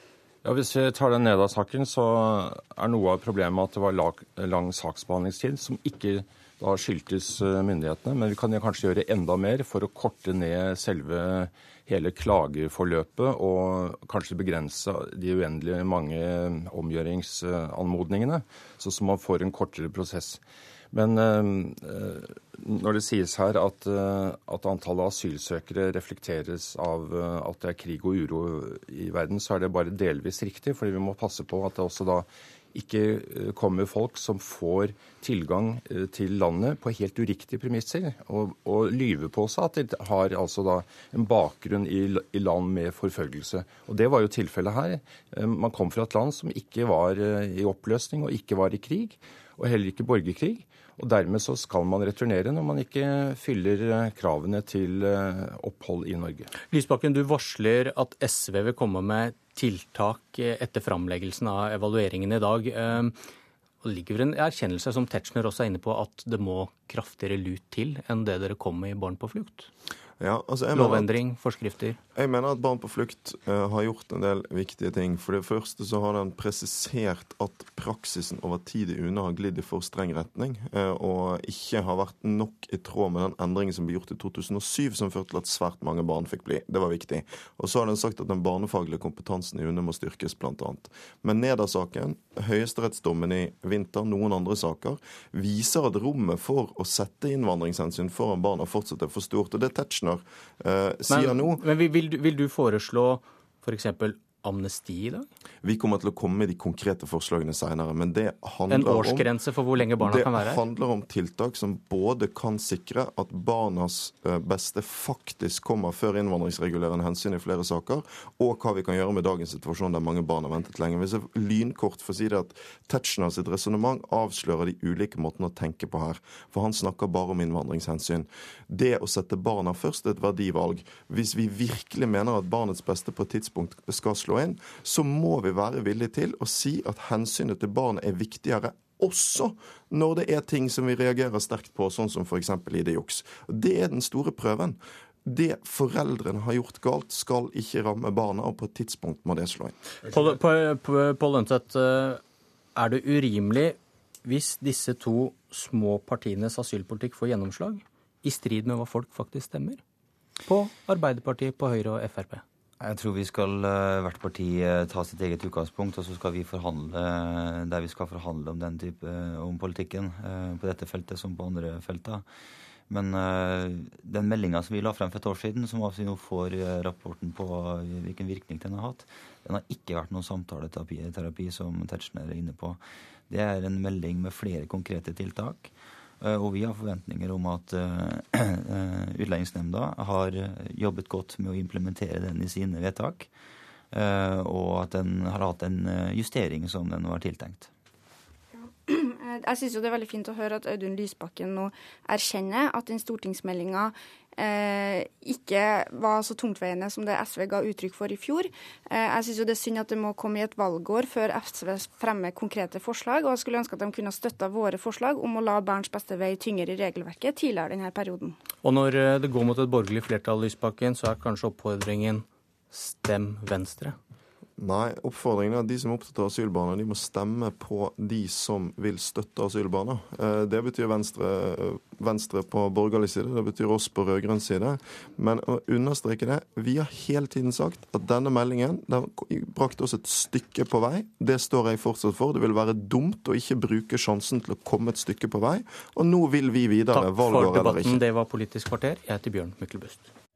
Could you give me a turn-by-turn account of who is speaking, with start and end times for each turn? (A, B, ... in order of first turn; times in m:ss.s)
0:00.4-0:20.4 A
0:20.9-0:56.5 A
0:56.6-1:03.2 B
1:03.8-1:09.7 B
1:10.2-1:11.1 C
1:10.7-1:12.0 B
1:12.2-1:41.6 C
1:41.1-1:45.3 B
1:45.6-1:49.3 C
1:48.7-1:50.6 B
1:49.9-2:29.8 C
2:30.0-2:32.2 B
2:32.8-2:39.8 B
2:40.5-2:42.4 B
2:42.8-2:52.2 D
2:52.9-3:13.3 D
3:13.9-3:17.7 D
3:18.6-3:38.4 E
3:38.6-3:44.0 B
3:44.6-4:08.0 C
4:06.9-4:10.1 B